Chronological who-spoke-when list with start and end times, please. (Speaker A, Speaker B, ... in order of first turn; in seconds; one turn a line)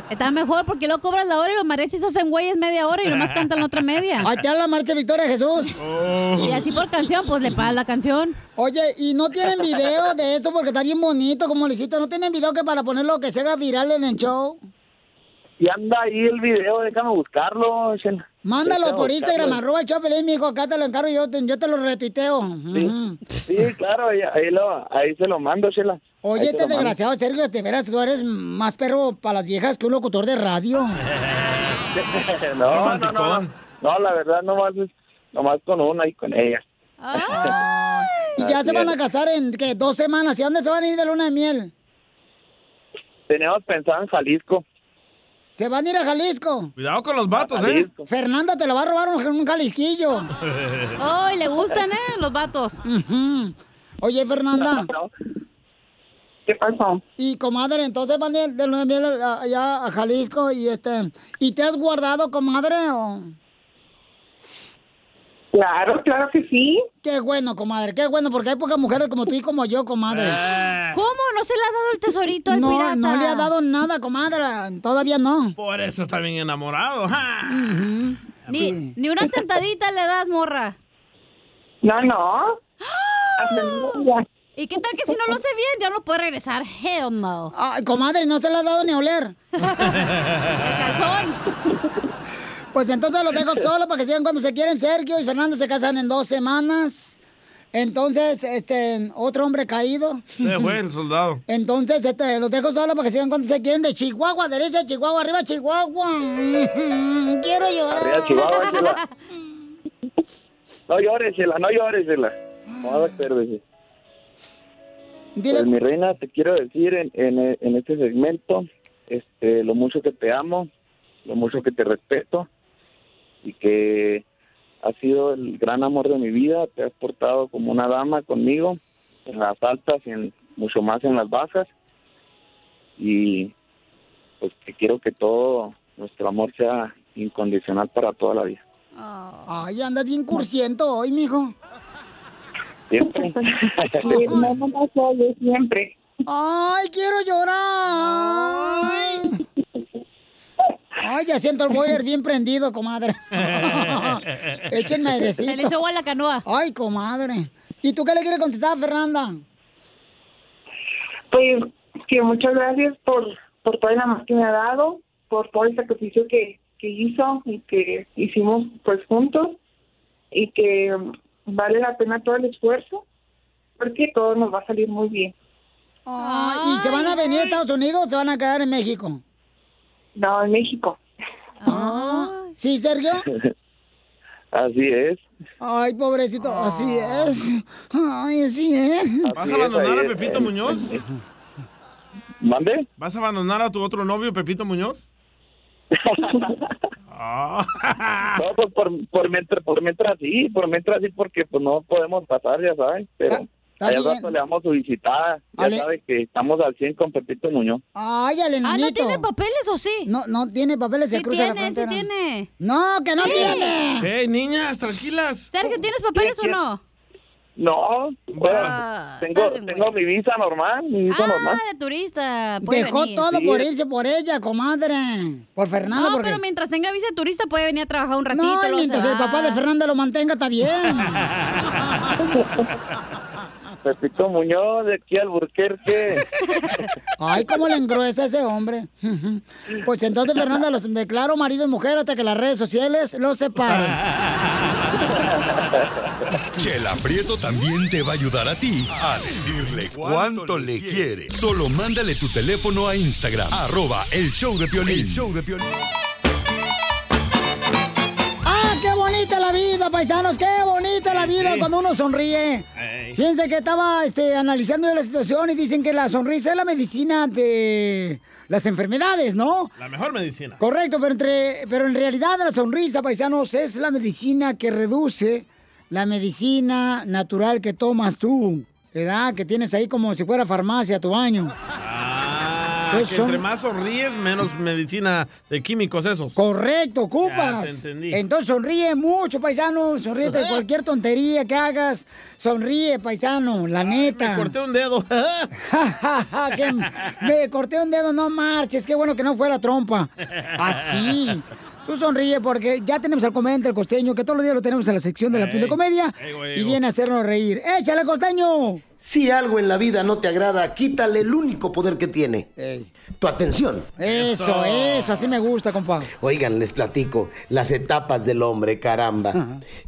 Speaker A: 0.1-4.3
Speaker B: 4.2-5.7
Speaker C: 5.8-6.6
Speaker A: 6.4-8.3
Speaker B: 8.6-14.6
Speaker D: 15.6-19.6
Speaker B: 18.4-23.2
Speaker D: 23.5-26.9
Speaker B: 26.2-31.0
Speaker D: 31.9-36.6
Speaker C: 32.6-33.5
Speaker A: 37.0-37.6
Speaker B: 37.1-41.7
Speaker D: 38.4-38.9
Speaker D: 43.3-44.6
Speaker B: 45.5-46.7
Speaker C: 46.8-47.9
Speaker D: 47.3-48.0
Speaker B: 48.1-50.3
Speaker C: 50.4-50.9
Speaker A: 51.0-52.8
Speaker B: 52.8-54.9
Speaker D: 54.6-55.1
Speaker E: 56.5-57.0
Speaker B: 57.2-63.3
Speaker E: 65.5-66.8
Speaker B: 67.0-70.4
Speaker C: 70.1-71.0
Speaker A: 70.9-73.5
Speaker B: 72.5-75.5
Speaker C: 75.6-77.7
Speaker B: 77.5-78.9
Speaker A: 78.5-80.8
Speaker E: 81.8-82.6
Speaker A: 82.8-84.0
Speaker E: 83.4-84.2
Speaker A: 84.5-87.5
Speaker B: 87.5-89.3
Speaker A: 89.6-90.0
Speaker A: 90.6-91.4
Speaker B: 92.7-97.2
Speaker B: 97.7-100.8
Speaker C: 100.4-101.4
Speaker B: 101.5-108.6
Speaker D: 107.9-109.0
Speaker A: 108.3-109.1
Speaker D: 110.9-113.6
Speaker B: 115.4-115.7
Speaker D: 115.5-120.7
Speaker D: 121.2-122.5
Speaker D: 123.4-124.2
Speaker D: 124.8-131.7
Speaker D: 133.0-133.5
Speaker D: 134.4-138.6
Speaker A: 138.9-139.5
Speaker B: 139.5-141.5
Speaker D: 142.9-144.1
Speaker E: 143.1-145.9
Speaker B: 144.2-144.5
Speaker B: 146.2-149.4
Speaker B: 151.0-155.7
Speaker C: 153.4-154.6
Speaker A: 155.4-156.4
Speaker B: 156.4-159.4
Speaker E: 161.3-169.6
Speaker E: 170.3-173.0
Speaker E: 173.8-175.3
Speaker B: 176.1-179.2
Speaker A: 176.2-177.5
Speaker E: 180.2-181.0
Speaker A: 181.6-182.5
Speaker B: 181.7-183.2
Speaker D: 184.5-185.2
Speaker B: 185.6-189.3
Speaker C: 186.5-186.9
Speaker D: 189.3-191.0
Speaker C: 189.3-190.9
Speaker D: 192.4-192.9
Speaker C: 193.0-195.1
Speaker D: 195.9-196.5
Speaker C: 197.1-198.4
Speaker D: 198.4-207.8
Speaker B: 203.3-204.3
Speaker B: 205.6-205.8
Speaker B: 207.9-209.2
Speaker A: 208.6-210.1
Speaker B: 210.0-212.1
Speaker A: 211.1-212.5
Speaker B: 212.6-214.1
Speaker A: 213.2-213.8
Speaker C: 214.0-215.5
Speaker A: 215.5-216.8
Speaker D: 216.2-216.6
Speaker D: 217.6-218.7
Speaker C: 218.3-218.8
Speaker A: 218.4-219.9
Speaker D: 219.2-221.6
Speaker A: 221.1-223.3
Speaker B: 222.6-226.4
Speaker D: 223.3-223.6
Speaker A: 225.9-229.6
Speaker B: 228.3-231.3
Speaker D: 233.8-236.2
Speaker B: 237.2-244.0
Speaker D: 245.1-245.6
Speaker F: 246.5-255.7
Speaker B: 258.4-269.7
Speaker C: 261.1-261.7
Speaker C: 262.8-263.2
Speaker C: 269.8-270.6
Speaker B: 270.6-281.5
Speaker C: 281.8-286.4
Speaker B: 282.9-283.4
Speaker B: 286.4-294.5
Speaker C: 287.2-288.2
Speaker C: 290.2-290.6
Speaker C: 293.8-295.5
Speaker B: 295.6-308.8
Speaker C: 300.6-301.0
Speaker C: 305.3-306.8
Speaker G: 309.0-312.5
Speaker B: 312.6-312.9
Speaker G: 313.2-313.9
Speaker B: 314.0-316.1
Speaker C: 314.0-315.3
Speaker G: 316.1-319.4
Speaker B: 319.3-319.6